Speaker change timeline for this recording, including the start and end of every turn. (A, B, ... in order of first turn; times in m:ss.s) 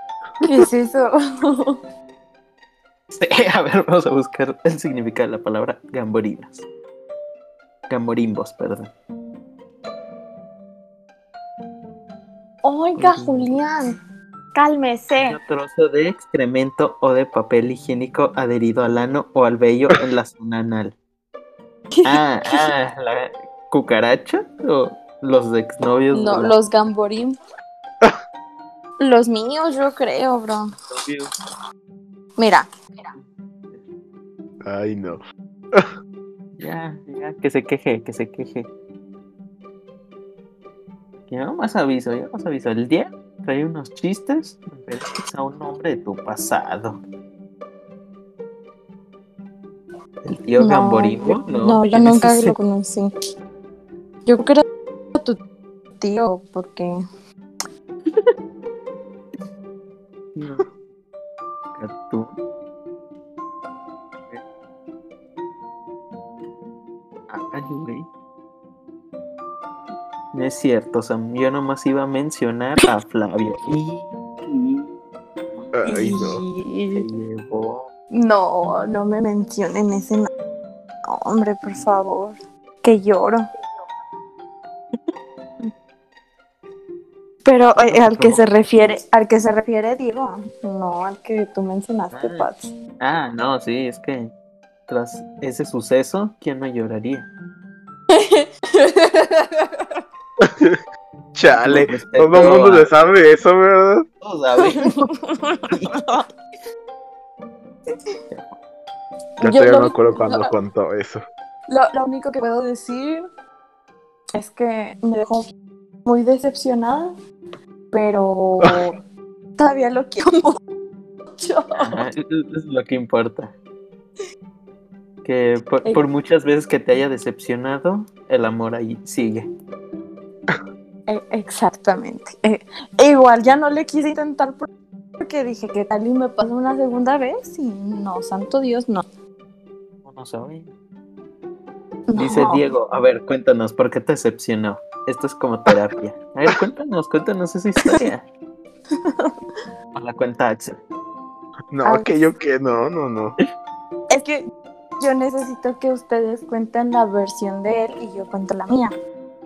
0:00.4-0:01.8 A
0:03.1-0:06.6 B
0:07.9-0:08.9 B
0:12.6-0:13.9 A
0:13.0-0:13.5 B
0:14.6-0:15.4 A
0:15.2-0:21.0 B
0:22.0-0:22.7 A
0:22.0-0:26.6 B
0:26.1-0:27.4 A
0:29.0-0:30.7 A
0:30.9-0:31.3 B
0:32.4-0:33.1 A
0:34.6-0:35.2 C
0:36.6-0:38.7 B
0:41.3-0:47.0 B
0:50.2-0:52.6 B
0:50.6-0:53.1 A
0:54.3-0:54.6 A
0:56.0-0:56.9 A
0:58.1-0:58.3 B
1:00.4-1:00.7 B
1:01.8-1:02.4 B
1:07.3-1:08.1 B
1:10.3-1:15.0 B
1:15.7-1:16.4 C
1:15.9-1:17.0 A
1:16.9-1:17.9 B
1:18.1-1:20.3 A
1:21.1-1:23.5 A
1:24.9-1:25.7 B
1:27.4-1:32.7 A
1:27.9-1:28.4 B
1:32.1-1:32.5 B
1:33.0-1:34.3 B
1:34.9-1:37.3 B
1:38.1-1:40.0 A
1:40.4-1:40.8 C
1:41.4-1:44.0 C
1:41.5-1:42.9 B
1:44.2-1:45.1 B
1:44.6-1:46.2 A
1:45.7-1:46.0 B
1:48.3-1:48.6 B
1:49.4-1:50.5 A
1:49.4-1:51.2 C
1:51.7-1:53.2 A
1:54.3-1:55.5 A
1:56.0-1:57.2 A
1:57.9-1:59.0 A
1:59.6-2:00.6 A
2:01.4-2:02.0 A
2:01.8-2:03.6 B
2:05.2-2:09.5 B
2:11.1-2:14.7 A
2:15.2-2:19.0 A
2:20.0-2:20.7 B
2:22.1-2:22.7 A
2:22.2-2:28.2 B
2:30.0-2:30.8 B
2:31.7-2:33.4 C
2:31.8-2:32.3 A
2:34.1-2:34.4 A
2:35.0-2:38.9 A